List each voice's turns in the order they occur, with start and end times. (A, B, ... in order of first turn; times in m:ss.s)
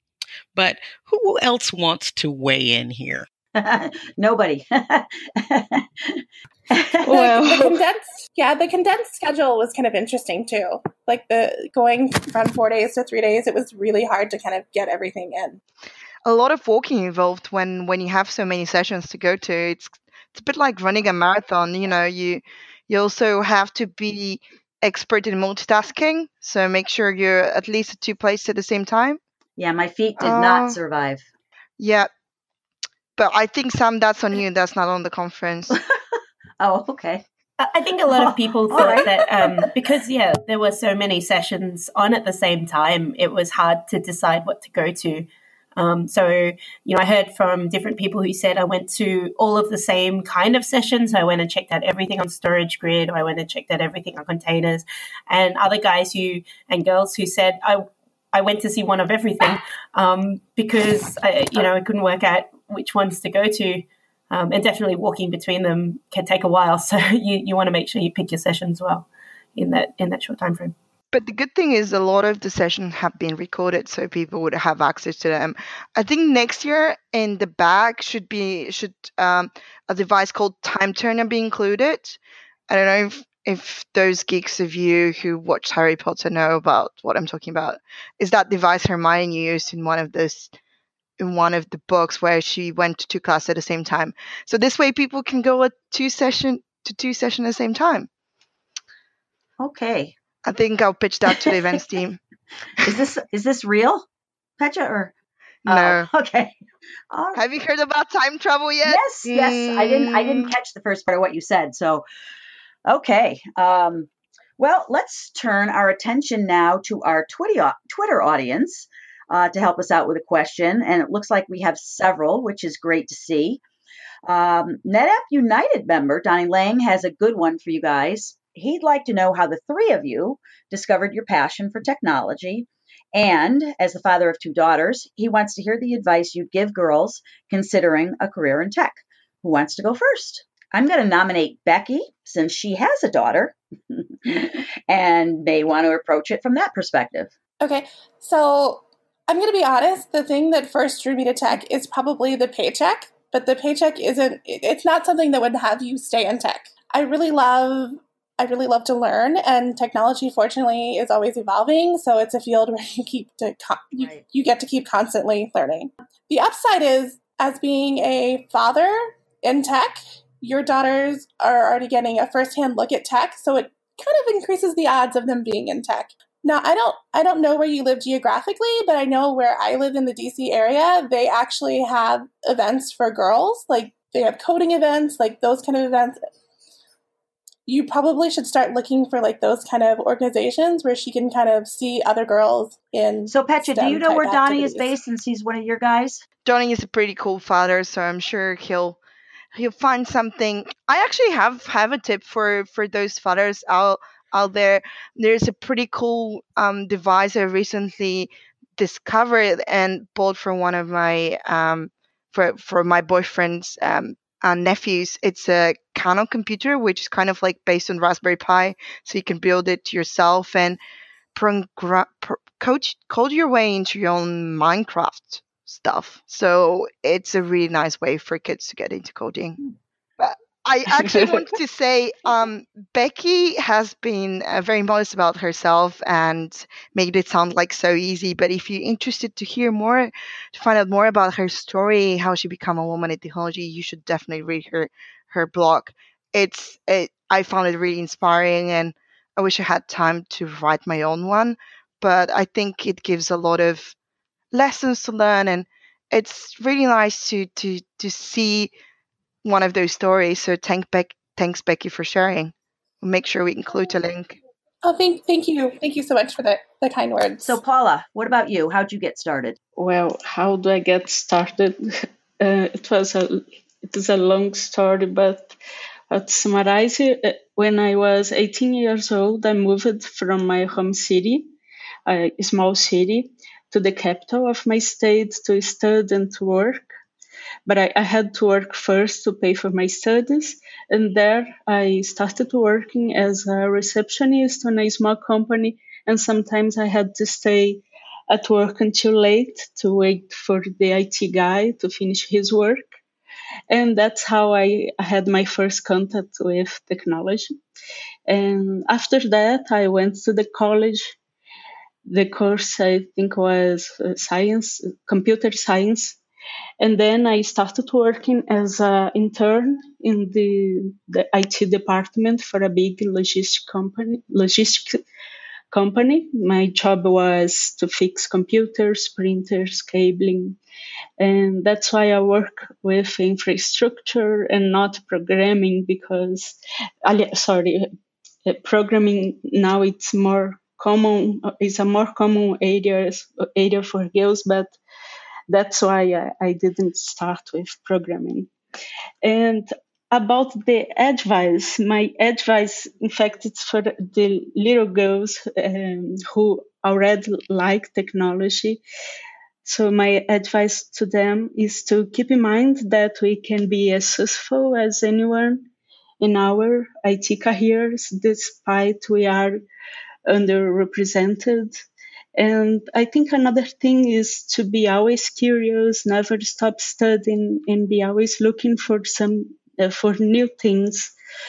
0:00.5-0:03.3 A
0:03.5-0:07.1 B
0:07.0-0:07.8 C
0:07.1-0:15.6 D
0:16.2-0:29.2 E
0:29.6-0:31.2 B
0:30.2-0:30.8 E
0:31.8-0:32.1 E
0:33.2-0:35.8 E
0:35.7-0:37.2 B
0:37.6-1:10.7 F
0:38.7-0:39.6 B
1:11.1-1:30.5 E
1:31.2-1:38.1 E
1:39.6-1:40.1 B
1:40.4-1:42.2 E
1:42.8-1:44.0 B
1:44.6-1:45.1 B
1:45.6-1:46.1 E
1:45.6-1:46.6 B
1:47.1-1:47.4 B
1:47.3-1:50.5 E
1:48.8-1:52.0 B
1:52.8-2:03.6 B
2:04.2-2:27.3 B
2:27.6-3:06.2 D
2:44.0-2:44.2 B
3:07.6-3:14.9 D
3:13.3-3:16.2 B
3:16.4-3:19.0 E
3:19.5-3:40.8 E
3:41.3-3:49.6 E
3:50.2-4:14.0 E
3:51.0-3:51.4 C
4:14.5-4:18.7 E
4:19.4-4:24.4 E
4:24.8-4:27.6 D
4:27.4-4:29.6 B
4:29.8-4:35.6 C
4:36.1-4:41.5 C
4:42.1-4:46.9 C
4:47.7-5:03.0 C
5:03.7-5:07.6 C
5:08.3-5:11.2 C
5:12.0-5:16.2 C
5:16.8-5:25.0 C
5:25.7-5:30.6 C
5:31.2-5:37.9 C
5:38.4-5:44.8 C
5:45.5-5:48.5 C
5:49.2-5:58.8 C
5:59.6-6:05.6 C
6:06.2-6:09.6 C
6:10.3-6:11.8 C
6:12.4-6:21.1 C